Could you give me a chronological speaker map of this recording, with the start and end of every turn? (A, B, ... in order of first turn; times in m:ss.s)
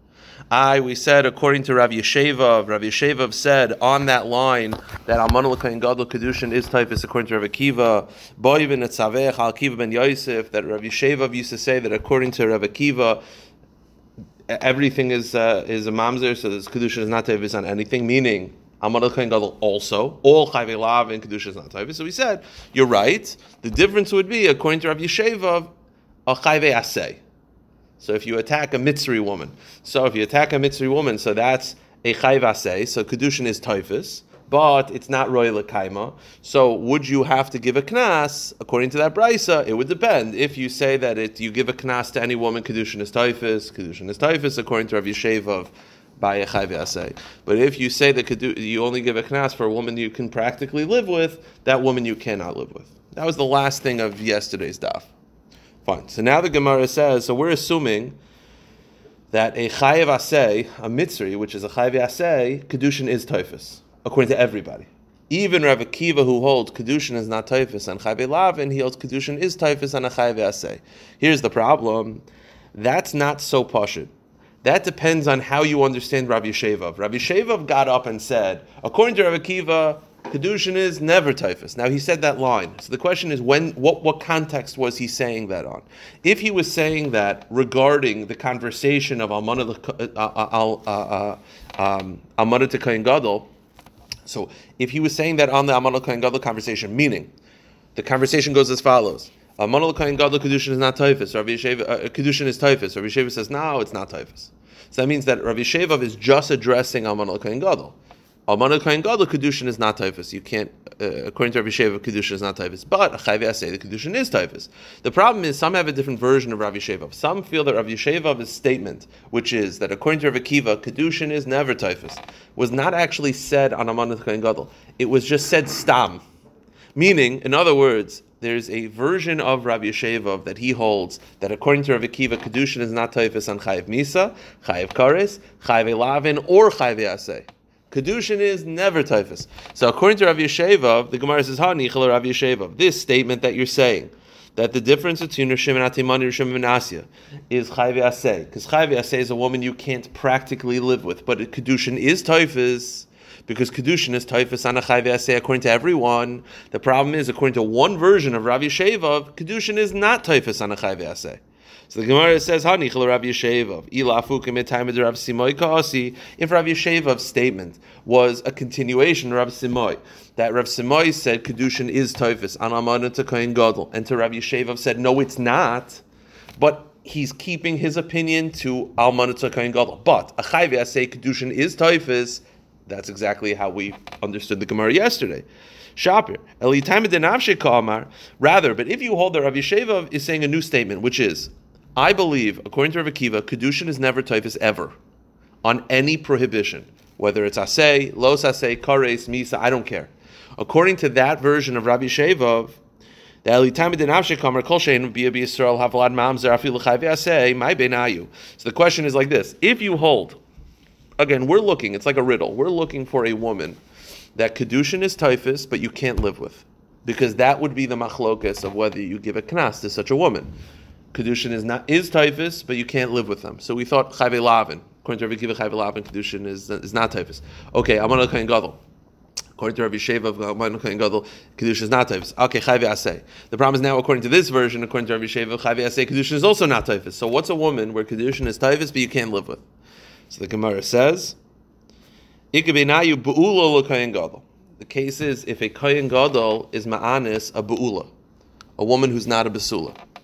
0:00.5-0:13.2 A
0:14.5-0:25.7 A
0:26.3-0:27.2 A
0:28.0-0:55.1 A
0:55.8-0:58.2 A
0:59.3-1:14.1 A
1:14.6-1:33.5 A
1:34.2-1:37.3 A
1:38.0-1:48.0 A
1:48.5-2:06.2 A
2:07.0-2:56.0 A
2:56.6-3:05.4 A
3:06.0-3:15.0 A
3:15.6-3:22.8 A
3:23.4-3:30.4 A
3:31.2-3:33.8 A
3:34.4-3:40.5 A
3:41.1-3:48.8 A
3:49.6-3:59.6 A
4:00.3-4:01.4 A
4:02.5-4:08.1 A
4:08.8-4:10.0 A